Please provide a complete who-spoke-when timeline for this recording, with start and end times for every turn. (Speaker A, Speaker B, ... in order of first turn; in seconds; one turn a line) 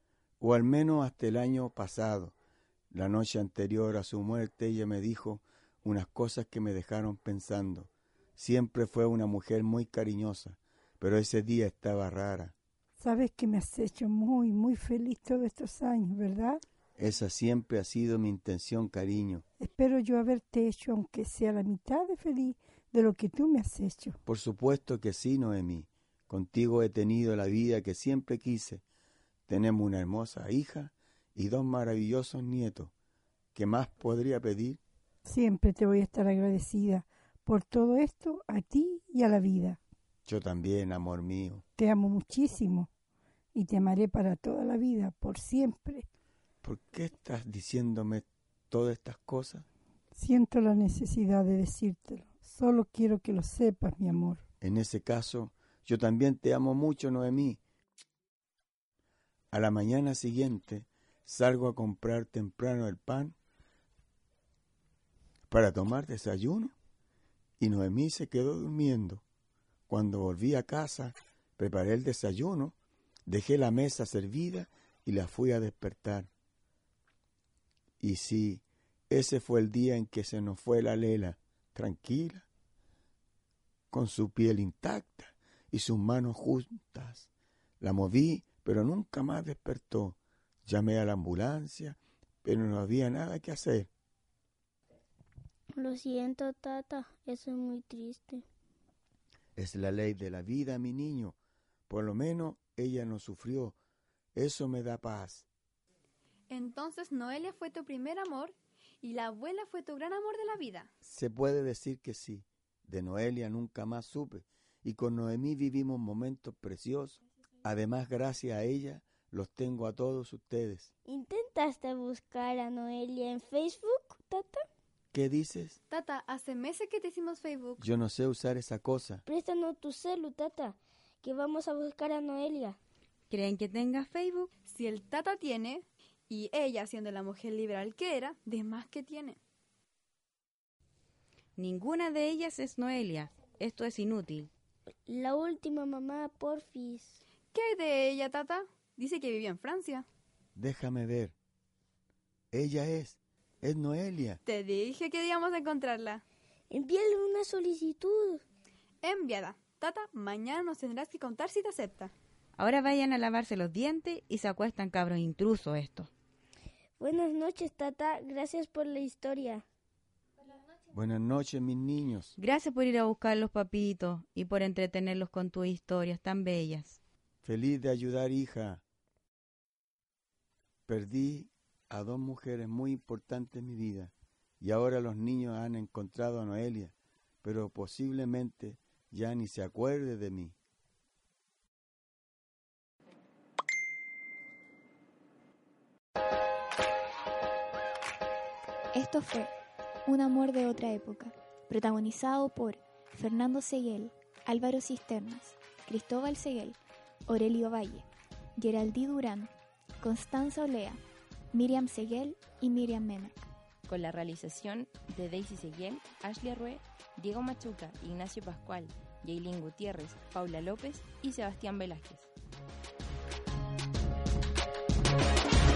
Speaker A: 0.4-2.3
Speaker A: 2.9-12.5
Speaker B: 13.0-16.6
Speaker A: 17.0-19.4
Speaker B: 19.6-24.2
Speaker A: 24.2-28.8
Speaker A: 29.5-32.9
Speaker A: 33.5-34.8
Speaker B: 35.2-39.8
Speaker A: 40.3-41.6
Speaker B: 41.8-42.9
Speaker B: 43.5-46.0
Speaker A: 46.6-49.6
Speaker B: 50.1-54.4
Speaker A: 54.6-57.6
Speaker A: 59.5-63.3
Speaker A: 65.5-66.7
Speaker A: 67.6-69.2
Speaker A: 69.9-72.7
Speaker A: 73.3-76.3
Speaker A: 78.0-82.5
Speaker A: 83.9-87.3
Speaker A: 87.8-93.9
Speaker C: 95.8-98.4
Speaker A: 99.5-101.3
Speaker A: 101.9-103.8
Speaker A: 104.3-105.5
Speaker D: 106.5-110.9
Speaker A: 111.0-120.9
Speaker C: 121.0-124.6
Speaker A: 125.1-125.8
Speaker D: 125.9-127.8
Speaker A: 127.8-129.2
Speaker C: 129.2-132.8
Speaker E: 133.3-134.5
Speaker D: 134.7-139.4
Speaker E: 141.6-144.5
Speaker C: 145.1-147.2
Speaker D: 147.5-150.1
Speaker A: 150.6-151.3
Speaker A: 152.5-154.4
Speaker D: 154.4-156.2
Speaker C: 156.7-158.4
Speaker D: 159.0-162.1
Speaker E: 162.6-166.1
Speaker C: 167.0-169.6
Speaker A: 170.9-172.4
Speaker E: 172.4-177.0
Speaker A: 177.4-178.8
Speaker A: 180.9-190.5
Speaker F: 198.9-199.5
Speaker F: 200.1-211.0
Speaker F: 211.5-213.4
Speaker G: 213.8-222.3